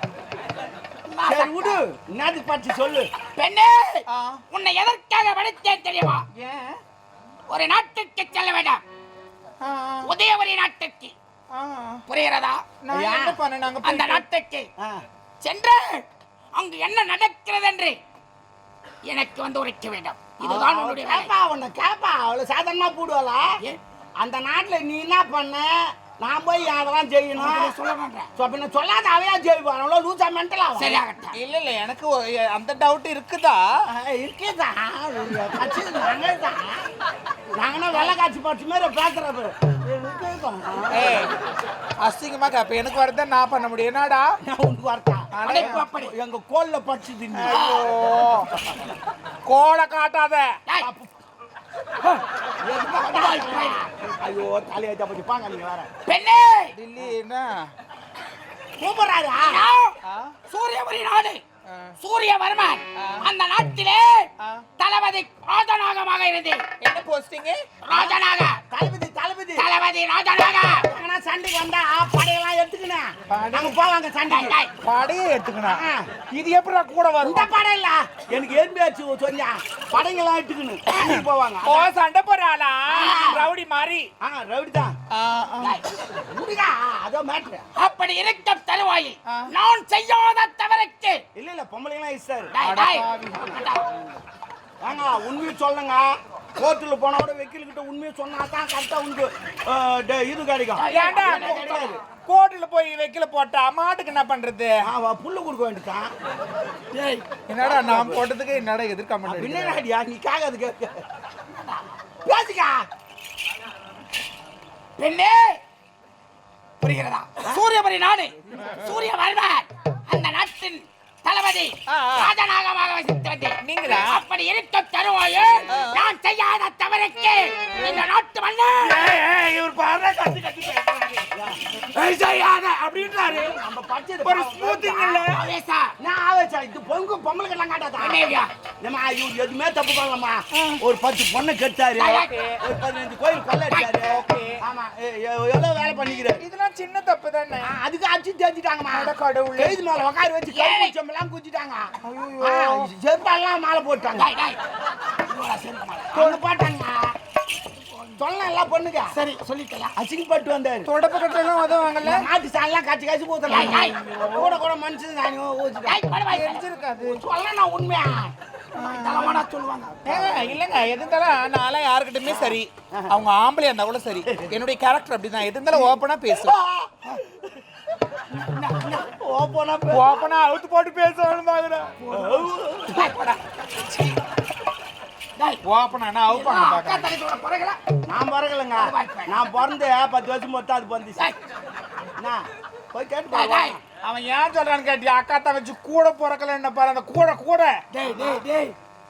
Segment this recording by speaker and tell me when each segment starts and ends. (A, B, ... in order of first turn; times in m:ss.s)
0:01.1-0:01.8 A
0:01.2-0:03.1 B
0:03.3-0:06.2 A
0:04.1-0:04.4 C
0:06.3-0:06.8 C
0:07.5-0:08.8 A
0:09.6-0:10.1 C
0:10.0-0:11.1 A
0:11.5-0:12.0 C
0:12.1-0:12.6 A
0:12.8-0:14.2 C
0:13.0-0:13.3 B
0:13.8-0:14.7 A
0:14.8-0:15.0 B
0:15.4-0:18.0 A
0:19.1-0:21.3 A
0:20.4-0:23.6 B
0:24.2-0:27.8 B
0:27.4-0:28.3 A
0:28.3-0:31.0 B
0:30.8-0:31.3 A
0:31.3-0:33.6 C
0:33.9-0:36.8 B
0:37.5-0:41.3 B
0:40.9-0:41.3 C
0:42.0-0:44.4 C
0:44.4-0:47.6 B
0:45.3-0:45.8 C
0:45.4-0:46.1 A
0:47.3-0:48.5 C
0:47.5-0:47.8 A
0:49.4-0:50.6 C
0:50.8-0:51.1 B
0:52.0-0:55.9 B
0:53.0-0:53.9 A
0:56.0-0:56.7 A
0:56.8-0:57.7 C
0:58.8-0:59.6 B
0:59.4-1:00.0 A
1:00.0-1:00.3 C
1:00.5-1:01.4 A
1:01.7-1:01.9 C
1:02.0-1:06.6 A
1:03.0-1:03.3 C
1:04.4-1:04.6 C
1:06.8-1:07.6 C
1:07.8-1:08.6 A
1:07.9-1:09.7 B
1:09.6-1:10.8 A
1:10.8-1:14.6 B
1:13.3-1:13.8 C
1:14.3-1:14.7 A
1:14.8-1:17.5 C
1:15.6-1:16.1 B
1:17.2-1:21.9 B
1:21.0-1:24.1 C
1:22.9-1:23.4 A
1:24.2-1:25.0 B
1:25.1-1:25.8 C
1:26.1-1:27.7 B
1:27.8-1:31.2 A
1:31.4-1:32.5 B
1:32.5-1:33.8 A
1:32.6-1:33.6 C
1:34.8-1:42.0 B
1:40.8-1:42.0 A
1:40.9-1:41.6 C
1:42.2-1:44.8 C
1:44.8-1:46.1 B
1:46.9-1:48.2 B
1:47.5-1:49.8 C
1:49.2-1:51.0 B
1:51.6-1:51.8 A
1:52.2-1:52.8 B
1:55.0-1:55.6 A
1:56.8-2:09.1 A
2:01.9-2:02.3 C
2:03.6-2:04.2 C
2:05.7-2:06.0 C
2:08.8-2:11.3 C
2:11.3-2:11.6 B
2:11.9-2:13.3 A
2:13.0-2:15.2 B
2:14.2-2:15.4 C
2:15.3-2:15.9 A
2:16.0-2:18.2 B
2:18.0-2:18.5 A
2:18.8-2:26.4 B
2:20.5-2:20.8 C
2:22.0-2:22.3 A
2:22.1-2:22.6 C
2:24.0-2:24.6 C
2:26.4-2:27.7 C
2:27.6-2:34.3 B
2:28.9-2:29.8 C
2:30.5-2:30.9 A
2:32.0-2:32.9 C
2:34.2-2:34.6 A
2:35.3-2:36.2 A
2:36.1-2:37.1 B
2:36.1-2:36.4 C
2:38.1-2:39.1 B
2:39.1-2:39.4 C
2:39.4-2:39.9 A
2:39.9-2:40.9 B
2:40.8-2:42.2 C
2:42.0-2:46.0 B
2:43.5-2:43.9 A
2:43.5-2:44.5 C
2:45.8-2:46.6 A
2:46.3-2:47.2 C
2:47.0-2:50.6 B
2:48.7-2:49.4 C
2:50.0-2:56.5 C
2:52.2-2:53.1 B
2:54.2-2:54.6 B
2:55.7-2:57.6 B
2:58.3-3:00.2 B
2:59.9-3:02.0 C
3:02.1-3:03.1 B
3:02.1-3:03.4 A
3:05.6-3:07.1 C
3:06.3-3:07.8 A
3:08.1-3:11.3 B
3:08.8-3:09.4 A
3:12.2-3:13.8 B
3:13.3-3:13.8 A
3:14.0-3:17.8 C
3:17.9-3:18.4 A
3:18.0-3:18.7 B